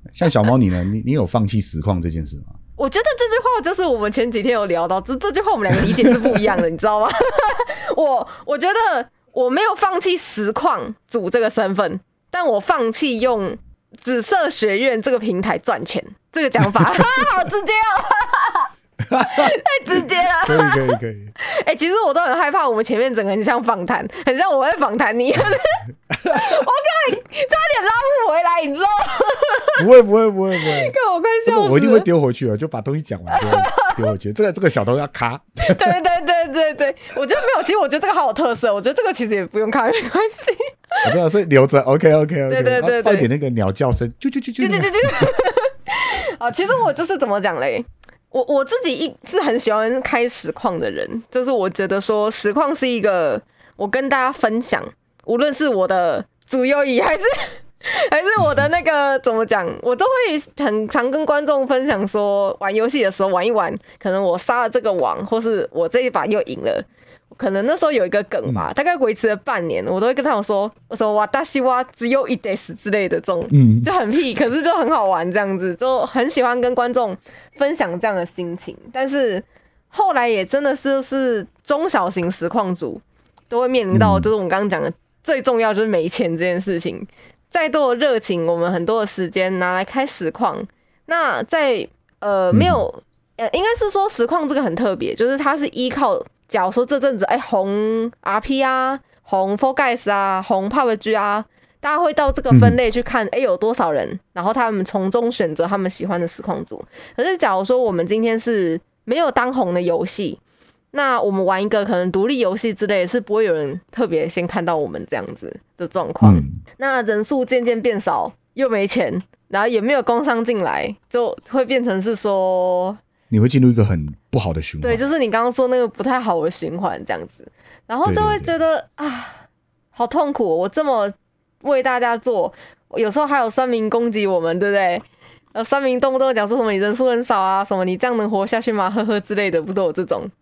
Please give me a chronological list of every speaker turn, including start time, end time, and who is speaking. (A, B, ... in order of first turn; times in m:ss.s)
0:00.1-0:02.6 A
0:02.8-0:18.7 B
0:06.0-0:06.4 A
0:16.8-0:17.2 A
0:19.0-0:21.3 A
0:19.2-0:29.8 B
0:26.1-0:26.5 A
0:29.8-0:36.0 A
0:30.6-0:32.1 B
0:33.3-0:34.0 B
0:35.6-0:41.1 B
0:41.0-0:45.3 A
0:42.5-0:43.3 B
0:44.6-1:50.4 B
1:13.5-1:13.9 A
1:23.9-1:24.3 A
1:32.5-1:32.8 A
1:42.5-1:42.8 A
1:50.9-2:03.0 B
1:56.2-1:56.6 A
2:03.3-2:05.0 A
2:04.8-2:20.3 B
2:08.0-2:08.5 A